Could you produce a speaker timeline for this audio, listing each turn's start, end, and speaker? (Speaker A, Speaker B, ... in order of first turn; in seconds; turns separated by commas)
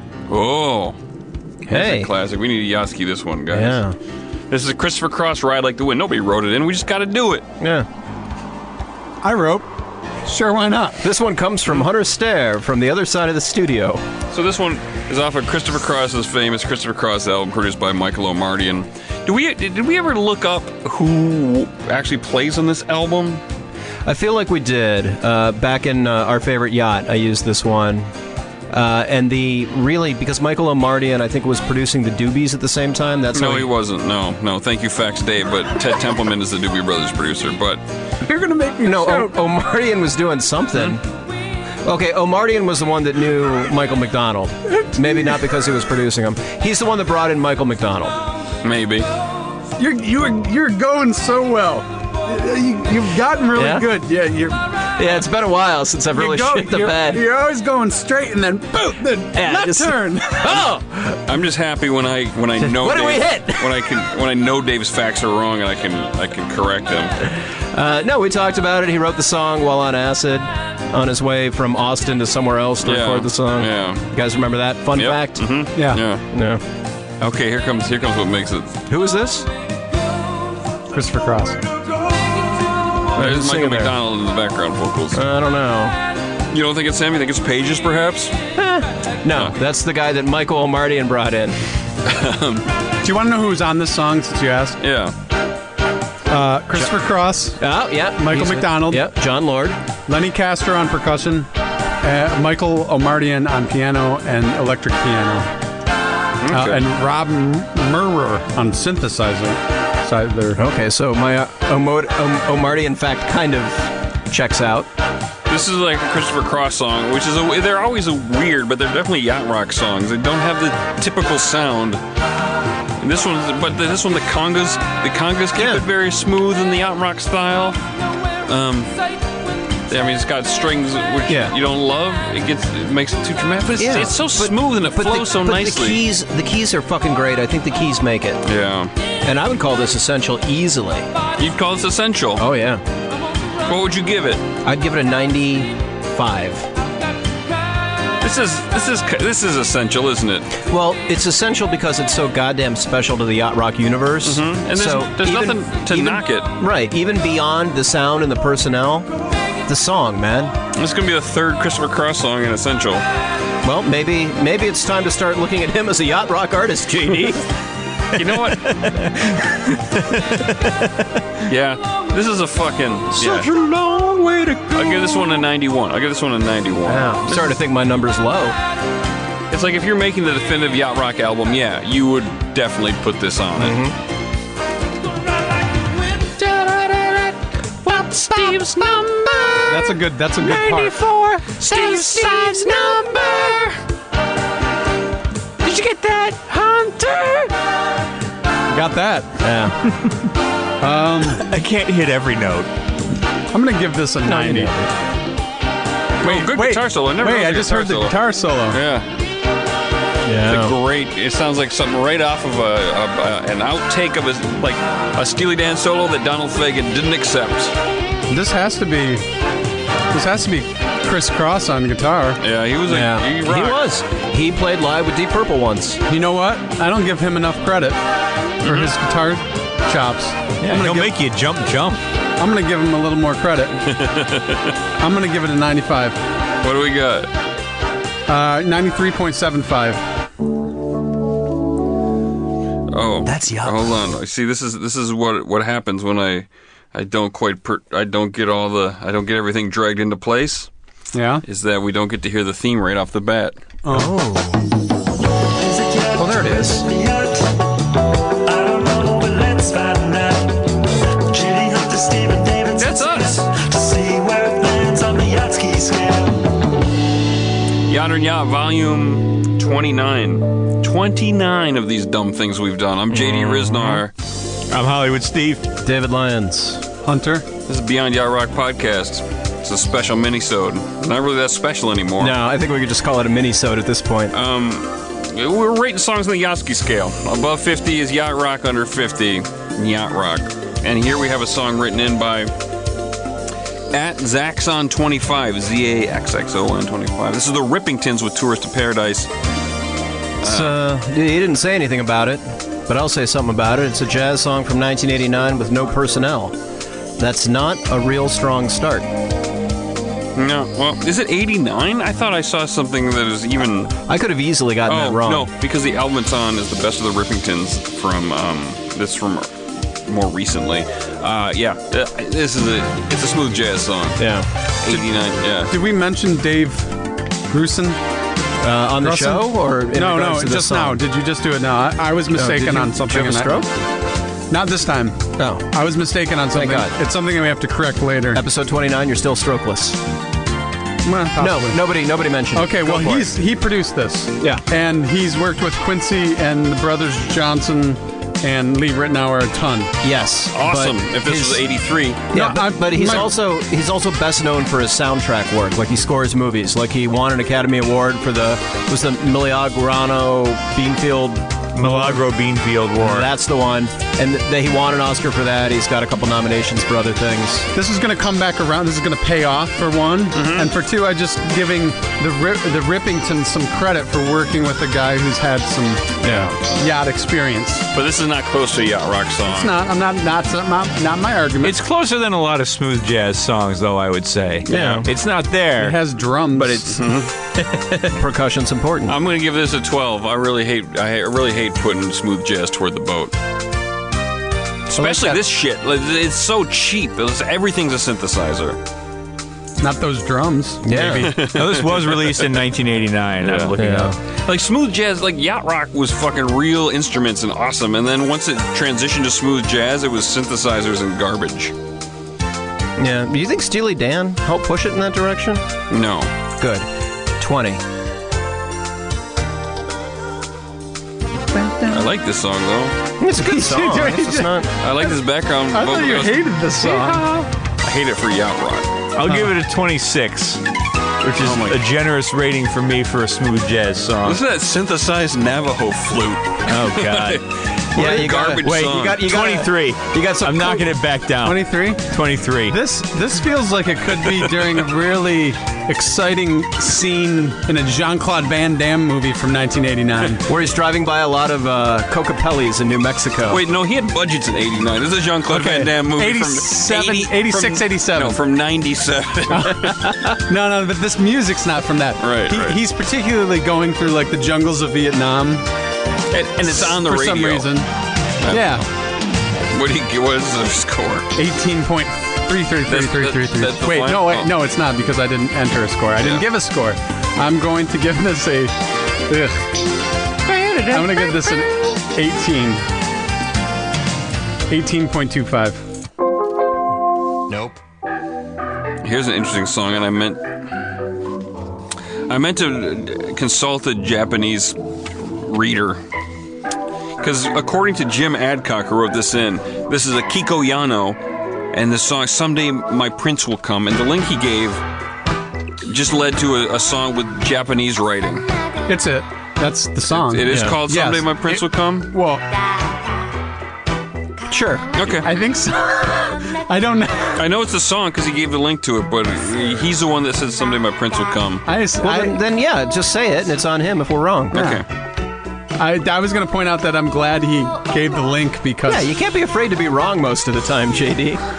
Speaker A: 0.3-1.0, Speaker B: 1.7-2.1, Speaker A: 1.7-3.8, Speaker B: 3.5-4.0, Speaker A: 4.5-7.5, Speaker B: 7.6-7.9, Speaker C: 9.2-9.7, Speaker C: 10.2-11.0, Speaker B: 11.0-14.0, Speaker A: 14.3-23.4, Speaker B: 24.0-28.1, Speaker B: 28.7-33.7, Speaker A: 33.3-37.8, Speaker C: 38.2-39.4, Speaker B: 38.8-41.0, Speaker B: 41.8-48.2, Speaker A: 48.6-49.1, Speaker C: 49.8-54.9, Speaker B: 53.5-53.9, Speaker B: 55.0-57.2, Speaker C: 56.1-60.7, Speaker B: 59.3-61.1, Speaker A: 61.3-67.2, Speaker B: 62.6-63.9, Speaker B: 67.7-75.5, Speaker A: 72.8-74.0, Speaker A: 75.0-76.2, Speaker C: 75.7-76.0, Speaker B: 76.3-76.6, Speaker A: 77.2-78.8, Speaker B: 78.9-79.5, Speaker C: 80.9-81.6, Speaker A: 83.1-85.2, Speaker B: 83.2-84.0, Speaker B: 85.1-86.0, Speaker A: 86.5-88.3, Speaker B: 88.5-91.6, Speaker A: 92.0-92.7, Speaker C: 93.0-94.8, Speaker A: 94.8-95.1, Speaker C: 96.3-97.6, Speaker B: 97.6-99.8, Speaker C: 98.2-99.1, Speaker C: 100.1-101.5, Speaker C: 102.0-105.5, Speaker A: 106.4-106.8, Speaker C: 106.5-110.6, Speaker B: 110.5-114.9, Speaker A: 115.5-122.0, Speaker A: 123.0-127.8, Speaker B: 125.5-125.8, Speaker A: 128.5-128.9, Speaker A: 129.9-136.0, Speaker B: 131.3-131.5, Speaker B: 133.8-138.4, Speaker A: 138.4-138.9, Speaker B: 139.2-141.1, Speaker A: 141.4-142.4, Speaker B: 142.4-142.8, Speaker A: 143.7-144.4, Speaker B: 144.6-146.7, Speaker A: 148.2-150.5, Speaker B: 150.6-159.1, Speaker A: 154.2-156.5, Speaker B: 159.7-160.5, Speaker A: 160.7-163.0, Speaker B: 163.6-167.4, Speaker A: 168.1-169.1, Speaker D: 168.8-169.1, Speaker D: 169.9-170.7, Speaker A: 171.4-173.5, Speaker B: 173.1-175.2, Speaker A: 174.7-177.6, Speaker B: 176.8-178.6, Speaker A: 179.5-183.8, Speaker B: 183.6-183.9, Speaker B: 186.2-193.7, Speaker C: 189.7-191.0, Speaker A: 191.6-192.5, Speaker B: 195.6-197.5, Speaker C: 198.7-199.4, Speaker B: 199.4-199.8, Speaker C: 200.8-201.4, Speaker D: 201.4-202.7, Speaker C: 203.5-204.7, Speaker B: 204.2-204.9, Speaker A: 206.2-209.1, Speaker C: 206.2-208.8, Speaker B: 210.2-210.7, Speaker A: 210.5-217.7, Speaker C: 218.3-219.2, Speaker C: 220.1-222.4, Speaker A: 222.4-223.8, Speaker B: 222.9-226.0, Speaker C: 226.1-228.0, Speaker C: 228.6-231.1, Speaker A: 228.6-228.9, Speaker D: 230.6-232.0, Speaker C: 232.4-233.9, Speaker A: 233.9-234.7, Speaker C: 235.0-236.2, Speaker A: 236.6-237.3, Speaker C: 238.3-240.0, Speaker A: 242.9-250.7, Speaker E: 243.2-244.1, Speaker C: 251.1-251.4, Speaker A: 251.4-253.6, Speaker C: 253.8-254.1, Speaker B: 253.9-254.6, Speaker E: 255.6-257.5, Speaker B: 256.1-256.9, Speaker E: 258.4-260.6, Speaker E: 261.2-266.6, Speaker A: 262.8-263.5, Speaker A: 267.9-274.1, Speaker B: 273.1-274.0, Speaker D: 274.7-275.7, Speaker B: 275.8-276.8, Speaker C: 277.0-277.4, Speaker A: 277.6-282.3, Speaker B: 282.2-284.3, Speaker A: 284.3-292.5, Speaker A: 293.9-299.3, Speaker A: 300.4-300.8, Speaker B: 300.4-306.6, Speaker B: 307.2-309.1, Speaker A: 310.4-314.0, Speaker B: 314.1-315.5, Speaker A: 314.9-324.2, Speaker B: 324.2-324.5, Speaker A: 324.8-325.7, Speaker C: 325.7-328.0, Speaker B: 328.6-331.0, Speaker C: 329.0-333.7, Speaker B: 332.3-333.7, Speaker C: 334.5-338.4, Speaker B: 335.4-335.6, Speaker B: 336.5-336.9, Speaker B: 338.3-340.0, Speaker C: 341.0-341.8, Speaker B: 341.4-343.3, Speaker C: 342.5-349.9, Speaker B: 350.0-351.6, Speaker A: 350.5-352.3, Speaker B: 352.3-361.5, Speaker C: 352.3-353.3, Speaker D: 361.7-363.3, Speaker C: 361.8-362.2, Speaker B: 363.0-367.7, Speaker C: 367.7-377.9, Speaker A: 370.3-370.7, Speaker B: 376.2-376.5, Speaker A: 377.9-379.7, Speaker C: 379.5-381.8, Speaker D: 381.6-386.0, Speaker B: 384.7-385.1, Speaker C: 385.8-387.1, Speaker D: 386.5-386.9, Speaker A: 387.0-387.3, Speaker B: 387.5-389.2, Speaker A: 389.1-393.3, Speaker A: 394.9-398.8, Speaker B: 394.9-395.4, Speaker C: 399.8-401.4, Speaker B: 400.8-401.4, Speaker A: 401.1-402.6, Speaker D: 401.5-404.1, Speaker A: 403.4-403.7, Speaker B: 403.8-404.2, Speaker A: 404.4-411.7, Speaker B: 413.0-415.6, Speaker A: 415.9-416.3, Speaker B: 416.6-416.9, Speaker B: 417.4-417.8, Speaker C: 421.5-422.1, Speaker A: 421.9-423.0, Speaker B: 423.2-424.7, Speaker C: 423.4-424.7, Speaker A: 424.8-426.4, Speaker C: 425.7-427.3, Speaker A: 427.8-428.9, Speaker D: 429.1-430.6, Speaker C: 429.3-429.5, Speaker D: 431.2-434.4, Speaker A: 431.4-431.8, Speaker A: 434.2-439.3, Speaker D: 436.6-442.8, Speaker B: 437.9-440.9, Speaker C: 441.4-442.1, Speaker C: 442.7-450.5, Speaker A: 444.4-444.7, Speaker B: 450.5-453.6, Speaker A: 453.5-460.1, Speaker C: 455.5-458.4, Speaker C: 459.5-465.6, Speaker A: 462.2-462.8, Speaker A: 466.3-467.7, Speaker C: 466.6-467.9, Speaker A: 468.4-468.8, Speaker C: 468.5-468.9, Speaker A: 469.7-471.3, Speaker C: 471.3-478.7, Speaker A: 472.9-474.5, Speaker A: 476.2-476.4, Speaker C: 479.3-479.7, Speaker B: 480.4-481.2, Speaker C: 480.9-482.8, Speaker C: 484.7-485.8, Speaker B: 487.5-487.8, Speaker A: 489.0-490.4, Speaker A: 492.3-496.0, Speaker A: 497.2-501.2, Speaker A: 501.7-504.8, Speaker A: 505.8-508.4, Speaker C: 508.9-512.4, Speaker A: 510.1-512.1, Speaker B: 510.5-510.8, Speaker B: 514.5-514.9, Speaker A: 514.9-515.3, Speaker C: 515.2-517.4, Speaker A: 517.4-521.6, Speaker C: 521.6-522.4, Speaker B: 522.0-524.6, Speaker A: 524.5-524.8, Speaker C: 524.5-524.8, Speaker C: 525.8-529.1, Speaker B: 528.9-531.4